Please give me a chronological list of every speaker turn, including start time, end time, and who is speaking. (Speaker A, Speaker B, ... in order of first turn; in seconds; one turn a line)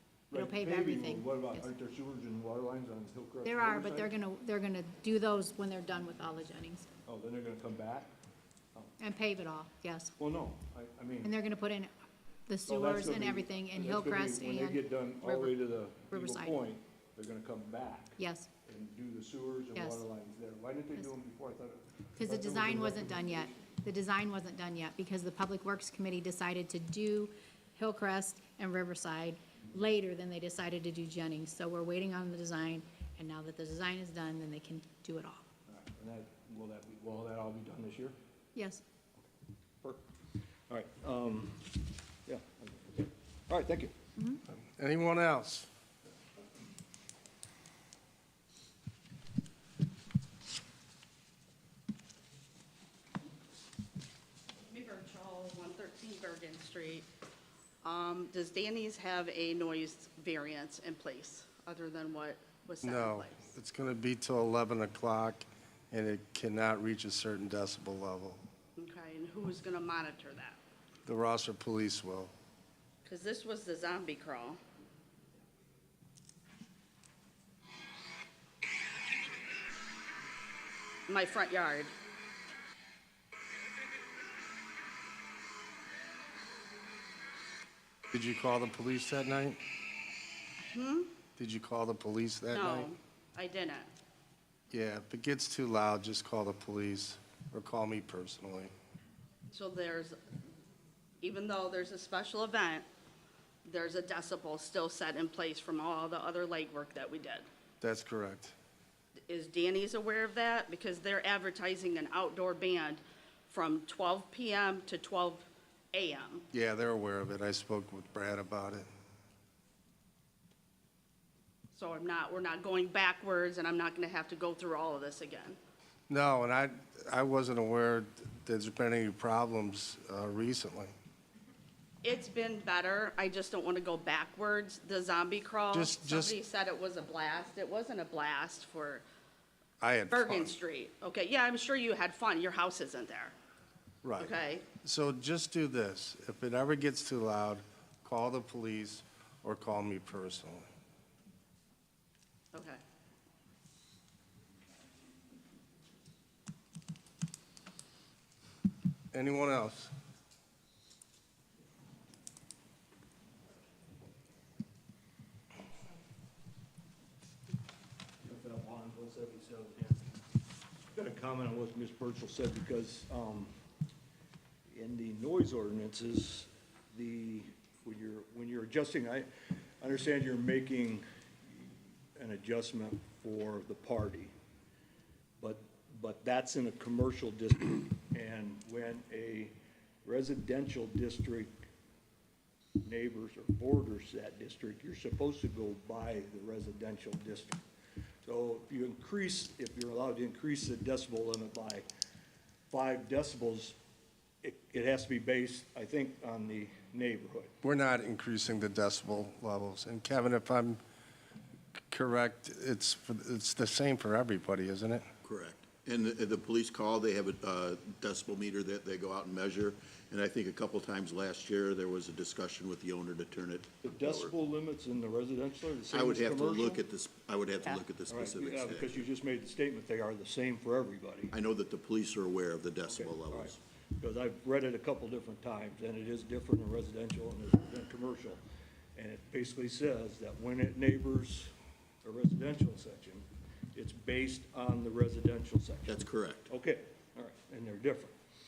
Speaker A: 0.3-4.1
Speaker B: 0.3-1.7
Speaker B: 3.4-6.9
Speaker A: 7.1-8.1
Speaker B: 9.0-10.2
Speaker A: 10.2-11.3
Speaker B: 11.2-11.9
Speaker B: 12.5-16.6
Speaker A: 12.7-23.7
Speaker B: 18.2-18.5
Speaker B: 19.8-20.0
Speaker B: 22.2-35.5
Speaker A: 35.7-38.1
Speaker B: 38.5-38.8
Speaker A: 40.7-43.9
Speaker C: 44.7-45.7
Speaker D: 54.7-57.1
Speaker D: 57.8-63.5
Speaker C: 62.8-68.4
Speaker D: 68.8-70.6
Speaker C: 71.1-72.3
Speaker D: 73.0-74.6
Speaker D: 81.1-81.9
Speaker C: 88.1-89.6
Speaker D: 90.7-91.1
Speaker C: 91.4-92.9
Speaker D: 92.5-93.9
Speaker C: 94.7-98.7
Speaker D: 99.5-100.2
Speaker D: 101.2-102.9
Speaker D: 103.6-107.5
Speaker C: 107.8-108.5
Speaker D: 109.3-116.5
Speaker C: 116.5-118.9
Speaker D: 121.7-125.6
Speaker C: 126.1-130.9
Speaker D: 132.0-139.0
Speaker C: 135.7-136.4
Speaker C: 139.8-140.5
Speaker D: 140.1-143.3
Speaker C: 144.0-150.7
Speaker D: 144.2-144.7
Speaker D: 152.5-152.8
Speaker C: 159.1-159.9
Speaker A: 168.2-170.1
Speaker A: 170.9-173.5
Speaker A: 174.7-179.3
Speaker A: 179.8-184.3
Speaker A: 185.4-191.5
Speaker A: 192.8-197.6
Speaker A: 198.2-201.9
Speaker A: 202.7-203.8
Speaker A: 204.4-207.5
Speaker C: 207.6-210.8
Speaker C: 211.9-215.1
Speaker E: 215.2-224.3
Speaker A: 223.8-226.8
Speaker E: 225.9-229.1
Speaker A: 228.1-231.3
Speaker E: 231.3-233.6
Speaker A: 232.9-238.4
Speaker A: 239.0-248.1
Speaker E: 245.9-246.5